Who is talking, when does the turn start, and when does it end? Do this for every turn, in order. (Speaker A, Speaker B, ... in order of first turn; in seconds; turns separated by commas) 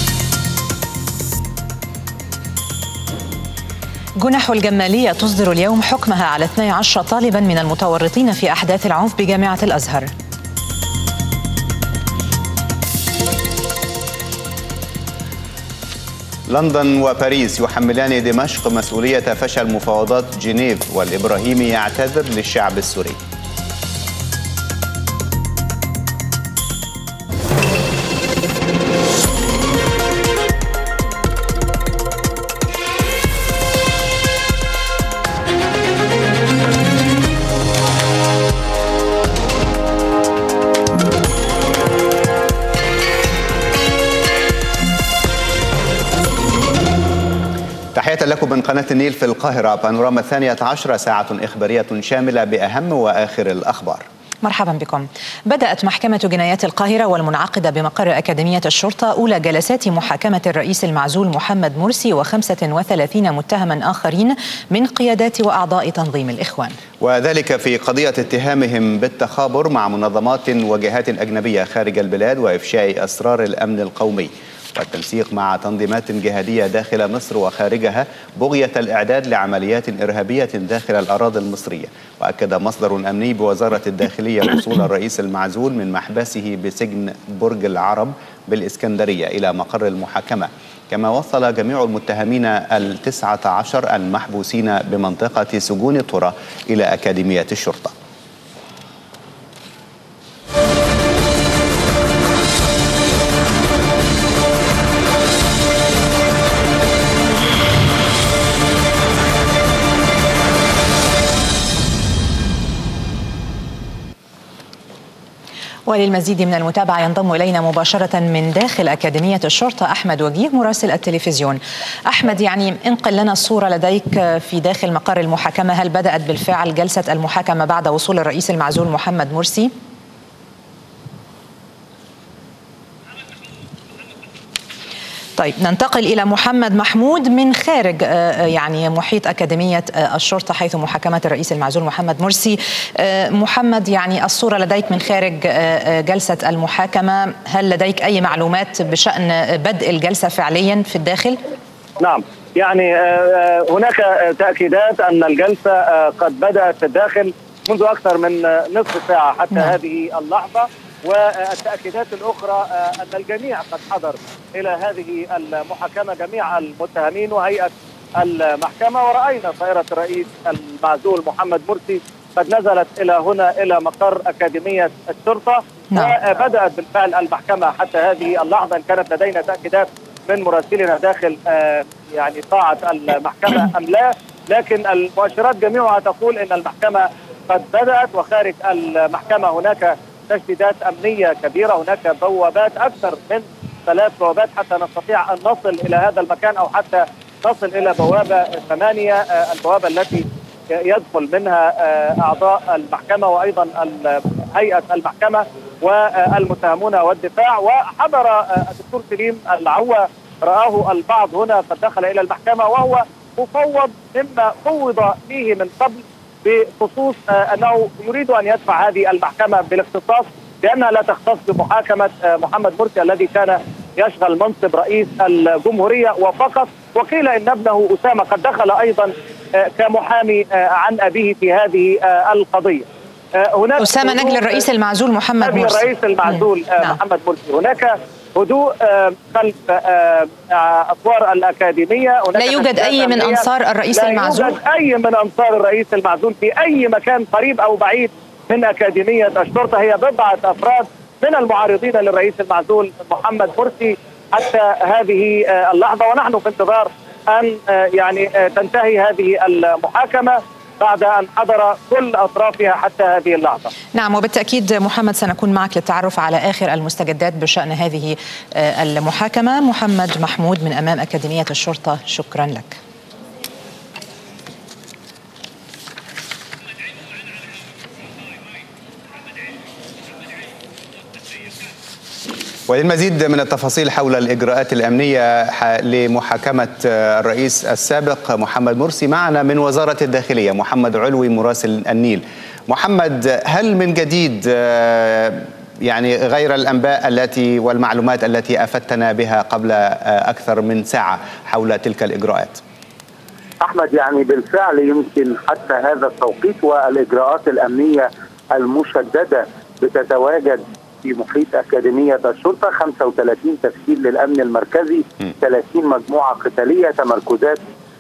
Speaker A: 4.2-10.1, Speaker B: 16.5-23.2, Speaker B: 48.0-54.0, Speaker A: 54.4-66.8, Speaker B: 67.0-98.0, Speaker A: 115.9-129.7, Speaker A: 135.4-151.4, Speaker C: 152.0-232.9, Speaker A: 175.9-176.2, Speaker C: 233.4-234.7, Speaker A: 233.8-237.0, Speaker C: 235.4-243.4, Speaker A: 242.4-244.6, Speaker C: 243.9-263.7, Speaker A: 263.9-272.8, Speaker B: 282.7-302.6, Speaker D: 303.6-317.6